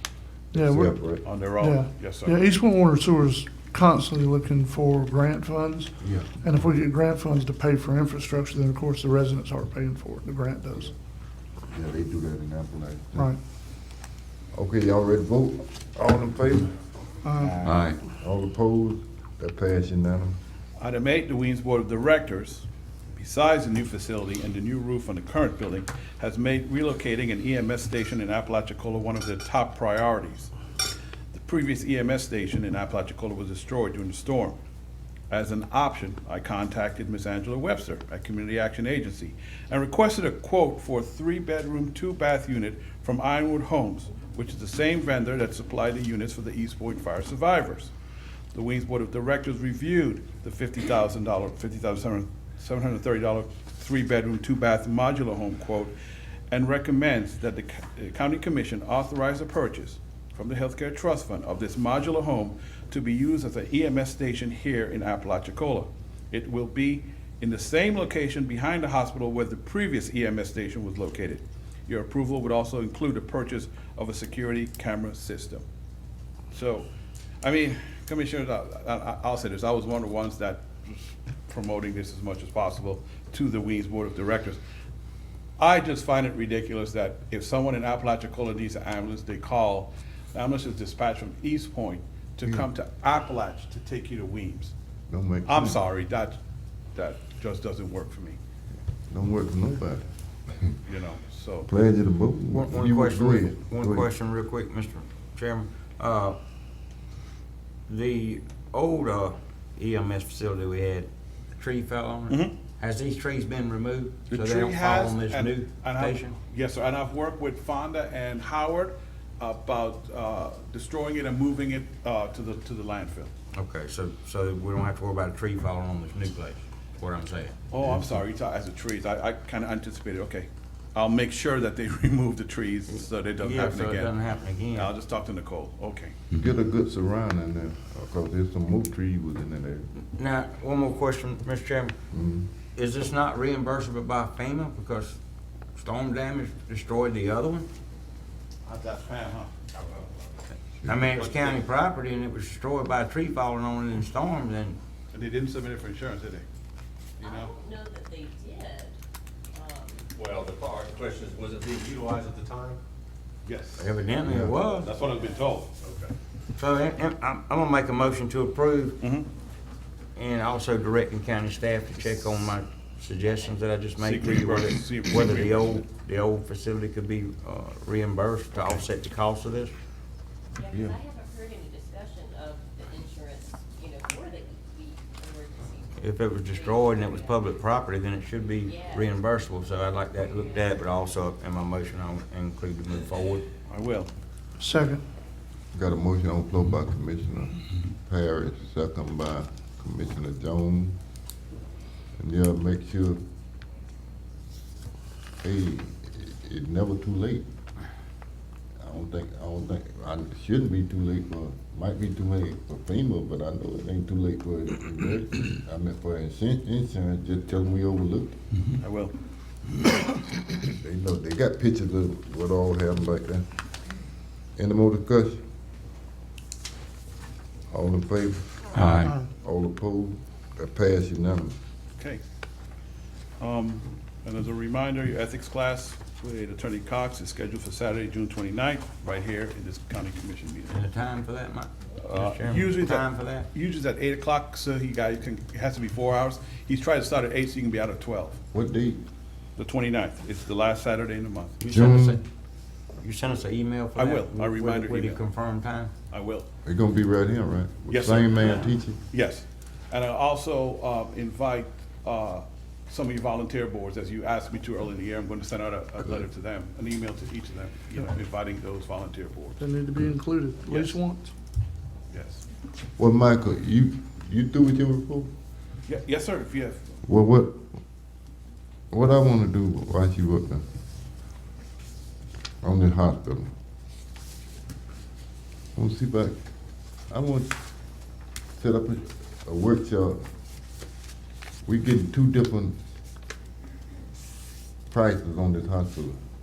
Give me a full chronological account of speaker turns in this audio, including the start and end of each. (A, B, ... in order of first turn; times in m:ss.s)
0:00.5-0:01.0 A
0:00.5-0:01.2 B
0:01.2-0:02.5 C
0:01.6-0:10.9 A
0:06.0-0:06.4 B
0:11.7-0:13.3 B
0:14.5-0:16.8 B
0:17.2-0:17.6 A
0:17.4-0:20.4 B
0:20.8-0:30.5 C
0:31.3-0:34.6 C
0:35.3-0:47.9 C
0:48.5-0:55.9 C
0:56.5-1:15.6 C
1:16.5-1:16.9 C
1:17.4-1:24.6 C
1:25.6-1:34.7 C
1:35.1-1:35.8 B
1:35.4-1:36.4 C
1:37.0-1:38.4 C
1:39.1-1:40.8 B
1:40.8-1:41.7 C
1:41.7-1:44.1 B
1:42.5-1:46.4 D
1:47.9-1:56.4 D
1:52.3-1:52.6 C
1:54.3-2:03.3 C
2:03.5-2:07.6 D
2:07.7-2:14.2 C
2:13.4-2:14.9 D
2:14.7-2:16.2 C
2:16.3-2:19.9 B
2:20.0-2:22.0 D
2:22.1-2:22.5 B
2:22.8-2:25.2 D
2:25.8-2:27.7 D
2:28.6-2:29.5 C
2:30.8-2:34.8 D
2:31.2-2:31.6 C
2:35.1-2:36.4 C
2:37.2-2:37.5 C
2:37.2-2:39.0 E
2:39.5-2:40.1 E
2:40.2-2:42.8 F
2:43.4-2:44.0 C
2:43.8-2:44.9 D
2:44.2-2:44.6 B
2:44.8-2:45.7 C
2:44.8-2:45.4 E
2:46.6-2:49.1 D
2:49.0-2:49.3 C
2:50.2-2:59.8 D
2:53.3-2:53.6 E
2:54.0-2:55.8 C
3:00.6-3:07.6 E
3:00.7-3:01.0 B
3:06.0-3:13.5 D
3:08.6-3:09.3 E
3:10.2-3:10.8 E
3:13.7-3:14.1 C
3:14.6-3:15.0 A
3:15.7-3:21.0 B
3:22.2-3:23.2 B
3:25.4-3:27.5 B
3:28.8-3:38.4 B
3:38.8-3:39.1 C
3:40.6-3:43.5 B
3:44.6-3:45.4 B
3:47.7-3:51.6 B
3:53.4-4:00.8 C
4:00.7-4:03.5 D
4:02.0-4:08.4 C
4:08.5-4:09.0 B
4:09.6-4:11.6 C
4:11.6-4:12.2 D
4:11.7-4:12.2 B
4:13.0-4:15.9 D
4:14.0-4:15.2 C
4:16.1-4:16.5 C
4:16.7-4:19.0 B
4:17.9-4:29.6 C
4:29.6-4:31.3 A
4:30.7-4:31.0 C
4:32.1-4:32.4 C
4:33.0-4:35.3 B
4:35.9-4:37.0 C
4:37.0-4:37.6 B
4:38.9-4:40.6 B
4:42.6-4:43.5 B
4:45.8-4:46.4 B
4:47.1-4:47.6 B
4:48.6-4:50.2 B
4:51.7-4:52.8 B
4:54.9-4:56.2 B